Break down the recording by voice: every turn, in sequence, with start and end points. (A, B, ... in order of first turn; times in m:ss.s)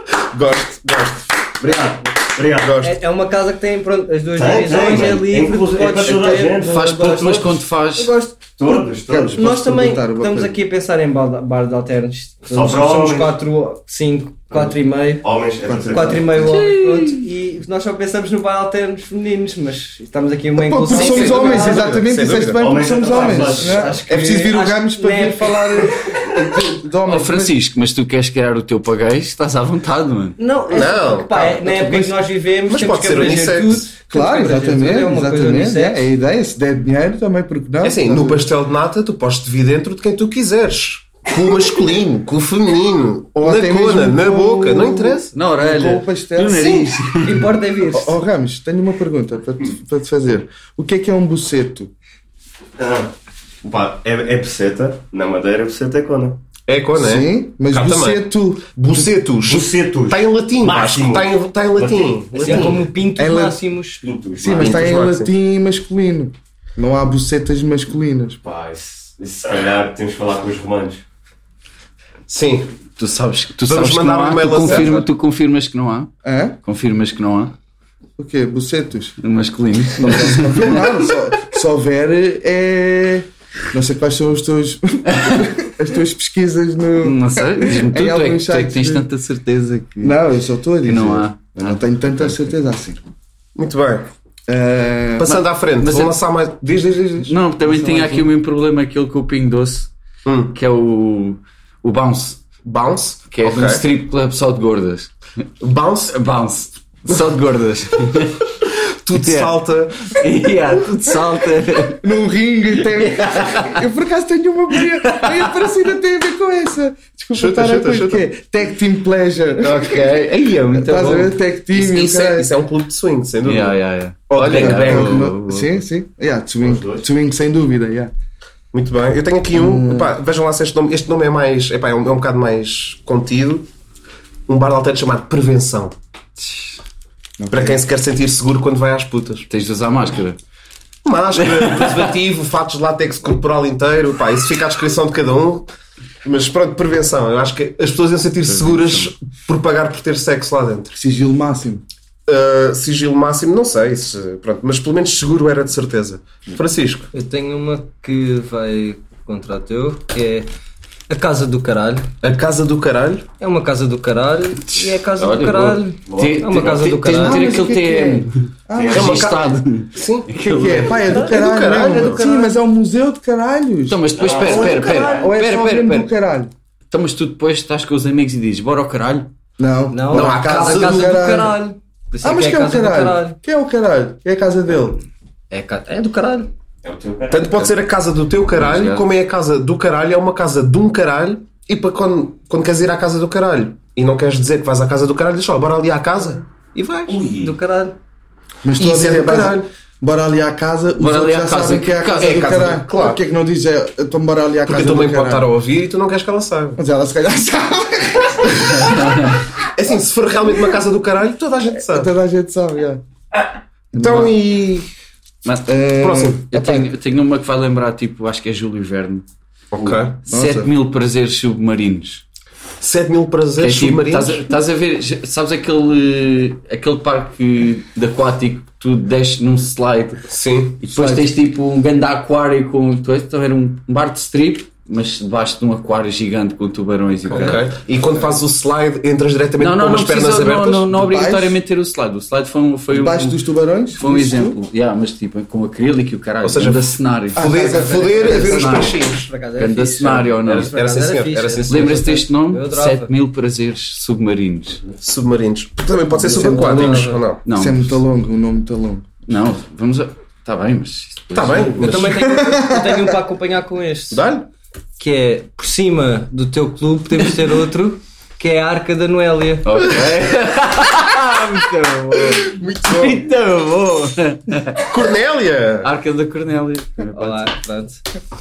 0:00.3-0:01.3 A
0:01.6-0:02.8 B
0:02.6-0:03.0 A
0:02.8-0:08.4 C
0:04.4-0:07.5 B
0:06.6-0:08.1 D
0:08.6-0:09.4 B
0:09.1-0:10.5 E
0:09.3-0:15.2 C
0:12.5-0:13.4 B
0:14.5-0:16.4 B
0:15.6-0:16.5 E
0:15.9-0:21.9 C
0:16.4-0:17.2 D
0:20.6-0:27.6 E
0:20.9-0:22.9 A
0:22.6-0:24.0 B
0:23.1-0:26.0 C
0:27.1-0:30.4 D
0:30.4-0:36.0 C
0:30.7-0:31.6 A
0:31.7-0:32.1 E
0:32.7-0:33.9 A
0:34.1-0:38.5 E
0:37.8-0:45.3 A
0:43.4-0:46.9 E
0:45.3-0:47.5 D
0:46.6-0:48.2 C
0:47.9-0:51.9 E
0:52.8-0:56.4 B
0:56.7-1:02.8 A
0:56.9-0:59.1 E
0:59.4-1:02.8 B
1:02.4-1:04.0 C
1:03.2-1:03.6 E
1:04.0-1:04.9 B
1:04.4-1:08.4 E
1:04.5-1:05.3 A
1:08.4-1:11.0 B
1:12.3-1:12.7 A
1:13.0-1:16.1 D
1:13.6-1:15.1 A
1:16.2-1:16.6 E
1:16.6-1:17.5 D
1:18.2-1:19.2 E
1:19.2-1:21.0 D
1:20.0-1:29.0 E
1:25.2-1:25.4 D
1:27.0-1:30.2 D
1:30.0-1:33.0 E
1:30.8-1:32.5 D
1:33.6-1:34.1 A
1:34.5-1:35.3 E
1:35.2-1:37.3 A
1:35.2-1:36.2 D
1:37.2-1:39.9 D
1:37.6-1:38.3 E
1:40.2-1:40.6 A
1:40.5-1:42.4 D
1:42.6-1:43.8 A
1:43.3-1:45.1 D
1:45.6-1:46.2 A
1:46.1-1:48.4 D
1:48.9-1:50.2 A
1:49.1-1:52.0 D
1:51.9-2:00.2 E
1:53.1-1:53.7 D
1:55.0-1:55.5 D
1:57.3-1:58.2 A
1:59.6-2:01.3 D
2:00.7-2:02.5 E
2:01.7-2:05.3 A
2:03.4-2:05.7 D
2:04.4-2:08.1 E
2:06.6-2:07.0 B
2:08.7-2:13.7 A
2:09.5-2:10.1 E
2:14.5-2:15.9 A
2:16.4-2:16.7 D
2:17.4-2:17.8 E
2:17.5-2:19.5 A
2:19.5-2:20.4 D
2:21.0-2:25.7 A
2:21.4-2:22.1 D
2:26.2-2:30.9 A
2:28.4-2:29.1 D
2:30.9-2:31.8 E
2:32.3-2:37.1 A
2:37.1-2:40.5 C
2:41.1-2:42.1 C
2:42.2-2:43.3 A
2:43.4-2:47.4 C
2:44.6-2:51.2 D
2:46.1-2:46.8 B
2:47.1-2:49.2 E
2:48.7-2:49.4 B
2:48.9-2:50.3 A
2:50.4-2:54.2 E
2:51.0-2:52.2 A
2:51.0-2:52.5 C
2:53.9-2:56.1 D
2:54.1-2:55.3 B
2:54.3-2:55.2 C
2:55.0-2:56.5 E
2:56.9-2:59.3 D
2:59.6-3:01.6 E
2:59.9-3:03.4 C
3:00.1-3:01.1 A
3:02.2-3:05.0 E
3:05.5-3:06.5 C
3:06.8-3:07.7 B
3:07.3-3:17.2 A
3:08.6-3:09.0 D
3:17.1-3:17.5 B
3:17.3-3:18.0 C
3:18.6-3:25.5 E
3:18.8-3:19.7 A
3:21.0-3:22.8 D
3:22.2-3:23.2 A
3:24.7-3:26.8 A
3:26.8-3:29.0 E
3:28.8-3:29.4 D
3:29.7-3:32.1 A
3:31.7-3:33.0 E
3:33.9-3:34.3 E
3:34.0-3:34.9 A
3:35.4-3:35.7 D
3:35.6-3:36.9 E
3:36.0-3:36.4 A
3:36.5-3:39.2 D
3:39.7-3:40.2 A
3:39.8-3:42.2 D
3:40.3-3:40.7 E
3:42.8-3:44.4 A
3:43.6-3:50.2 D
3:50.3-3:50.8 A
3:50.8-3:57.7 D
3:50.9-3:51.3 E
3:57.3-4:00.9 A
3:59.6-4:03.4 D
4:00.9-4:01.6 E
4:02.9-4:04.6 E
4:04.0-4:07.4 D
4:06.4-4:09.3 A
4:07.3-4:08.8 E
4:07.6-4:13.1 C
4:08.2-4:09.0 D
4:09.6-4:10.8 D
4:10.5-4:12.0 A
4:11.7-4:14.8 D
4:15.0-4:17.4 A
4:16.1-4:17.2 C
4:16.2-4:19.1 E
4:17.4-4:18.0 D
4:19.3-4:22.2 D
4:21.3-4:22.2 A
4:21.8-4:24.2 C
4:22.0-4:23.2 E
4:24.1-4:24.5 A
4:25.0-4:29.9 C
4:29.6-4:34.9 D
4:32.9-4:33.1 E
4:34.8-4:35.9 A
4:35.8-4:37.5 D
4:37.1-4:38.0 C